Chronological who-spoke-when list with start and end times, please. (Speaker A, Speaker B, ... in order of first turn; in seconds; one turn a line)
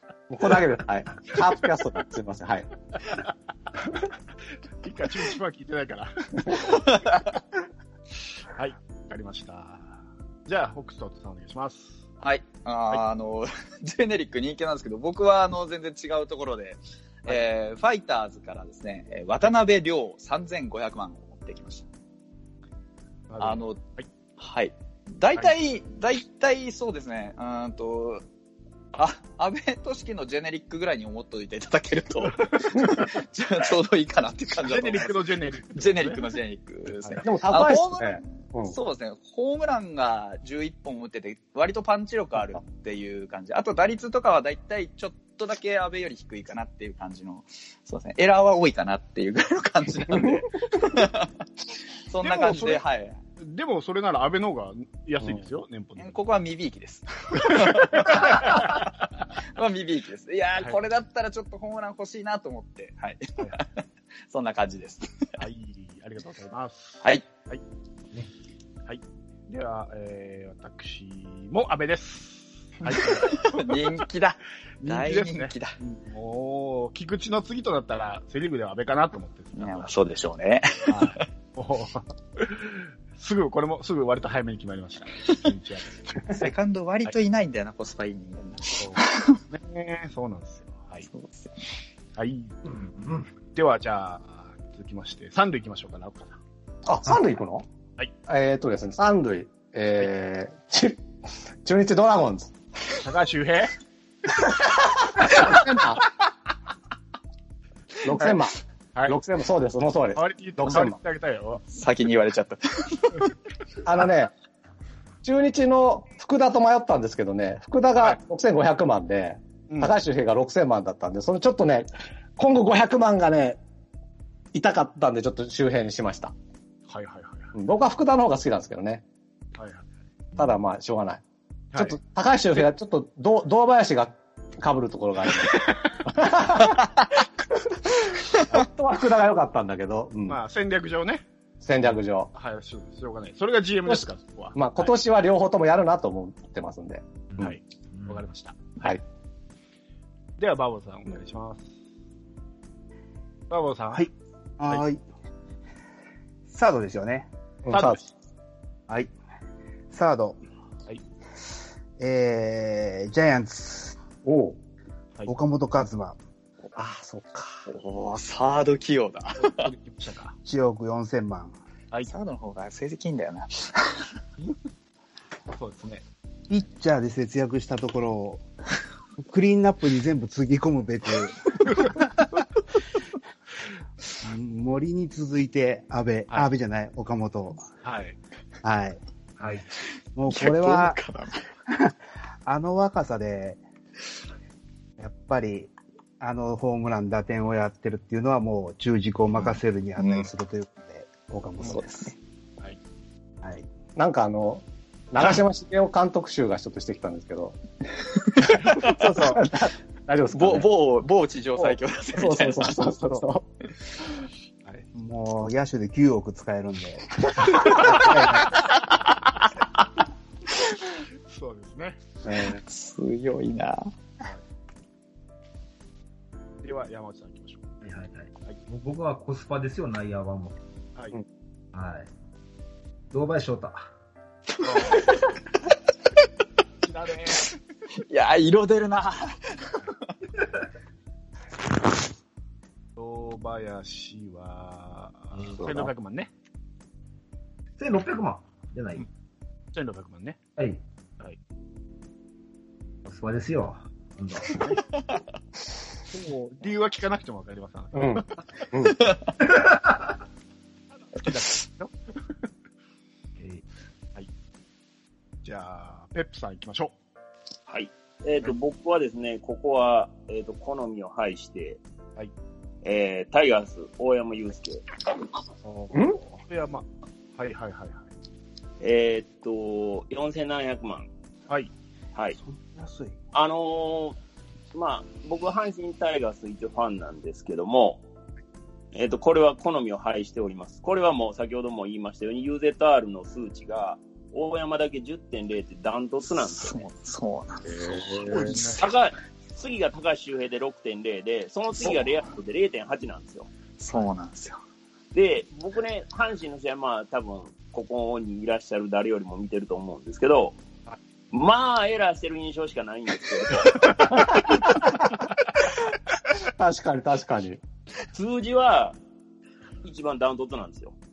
Speaker A: 0.3-2.7
Speaker B: 4.8-6.9
Speaker C: 6.7-7.2
Speaker B: 8.4-12.1
Speaker C: 12.2-21.9
Speaker B: 23.3-24.1
Speaker C: 23.4-23.8
Speaker C: 24.4-28.2
Speaker C: 28.9-35.2
Speaker B: 34.6-36.4
Speaker C: 35.7-51.3
Speaker A: 37.2-38.8
Speaker C: 52.1-53.2
Speaker B: 52.2-52.8
Speaker B: 53.4-56.2
Speaker C: 56.0-58.9
Speaker B: 57.4-58.7
Speaker C: 59.5-63.7
Speaker C: 64.3-65.1
Speaker B: 65.4-67.6
Speaker B: 68.9-74.0
Speaker C: 72.8-75.7
Speaker B: 74.8-80.0
Speaker C: 79.6-81.2
Speaker B: 80.9-86.3
Speaker C: 86.3-89.4
Speaker B: 88.8-91.1
Speaker C: 91.1-91.5
Speaker B: 92.2-92.5
Speaker D: 92.7-93.3
Speaker B: 93.5-96.4
Speaker A: 96.8-97.7
Speaker A: 98.3-101.0
Speaker A: 101.6-102.5
Speaker B: 103.0-103.8
Speaker A: 104.4-106.0
Speaker A: 108.0-111.0
Speaker B: 108.1-108.3
Speaker B: 110.2-111.6
Speaker C: 111.7-113.3
Speaker A: 113.8-114.3
Speaker A: 115.2-123.6
Speaker A: 124.5-126.3
Speaker B: 126.9-127.5
Speaker A: 127.5-129.0
Speaker B: 129.6-129.9
Speaker A: 130.4-131.2
Speaker A: 131.7-136.9
Speaker A: 137.7-140.4
Speaker B: 140.3-141.2
Speaker A: 141.6-142.3
Speaker B: 142.3-144.9
Speaker A: 143.8-147.6
Speaker B: 147.4-148.6
Speaker B: 150.4-151.7
Speaker B: 153.5-154.0
Speaker E: 153.9-155.0
Speaker E: 156.5-157.3
Speaker A: 157.7-158.0
Speaker B: 157.7-158.1
Speaker E: 159.9-160.4
Speaker E: 162.0-164.0
Speaker A: 164.2-164.6
Speaker E: 165.3-166.2
Speaker A: 166.8-167.7
Speaker C: 167.7-169.7
Speaker B: 169.6-170.4
Speaker E: 170.5-171.6
Speaker C: 172.1-174.0
Speaker B: 175.5-176.0
Speaker E: 176.5-178.4
Speaker E: 179.2-181.4
Speaker E: 184.2-187.6
Speaker B: 187.8-188.2
Speaker E: 188.6-189.0
Speaker B: 189.4-189.6
Speaker E: 190.2-191.0
Speaker C: 190.3-191.5
Speaker E: 192.5-193.6
Speaker E: 195.0-202.1
Speaker C: 200.0-200.3
Speaker C: 201.6-202.1
Speaker A: 203.9-207.6
Speaker A: 208.4-210.7
Speaker C: 208.7-209.4
Speaker C: 210.3-212.9
Speaker A: 211.6-213.5
Speaker E: 214.9-218.6
Speaker B: 221.3-222.0
Speaker A: 222.2-222.6
Speaker C: 222.4-223.9
Speaker B: 226.6-227.8
Speaker D: 227.8-230.6
Speaker D: 231.7-232.1
Speaker D: 233.1-233.9
Speaker B: 234.6-235.1
Speaker C: 234.8-235.2
Speaker B: 236.8-237.5
Speaker C: 238.0-239.8
Speaker B: 243.0-246.3
Speaker A: 245.6-245.9
Speaker D: 247.8-249.1
Speaker B: 249.7-250.4
Speaker D: 253.1-254.8
Speaker B: 254.5-254.8
Speaker B: 256.1-258.3
Speaker A: 257.9-259.0
Speaker D: 259.4-260.1
Speaker B: 261.1-261.9
Speaker B: 265.4-266.9
Speaker F: 267.7-271.8
Speaker F: 272.8-274.9
Speaker B: 275.6-278.1
Speaker A: 275.9-276.2
Speaker F: 278.8-281.1
Speaker E: 282.4-283.1
Speaker F: 283.3-284.2
Speaker F: 284.7-288.0
Speaker F: 288.9-296.9
Speaker C: 296.4-298.8
Speaker A: 297.6-298.7
Speaker B: 298.4-298.8
Speaker F: 298.5-303.5
Speaker C: 303.8-304.6
Speaker F: 305.1-310.6
Speaker F: 311.3-314.1
Speaker A: 314.1-315.1
Speaker A: 316.3-317.6
Speaker F: 318.1-319.0
Speaker F: 319.8-321.0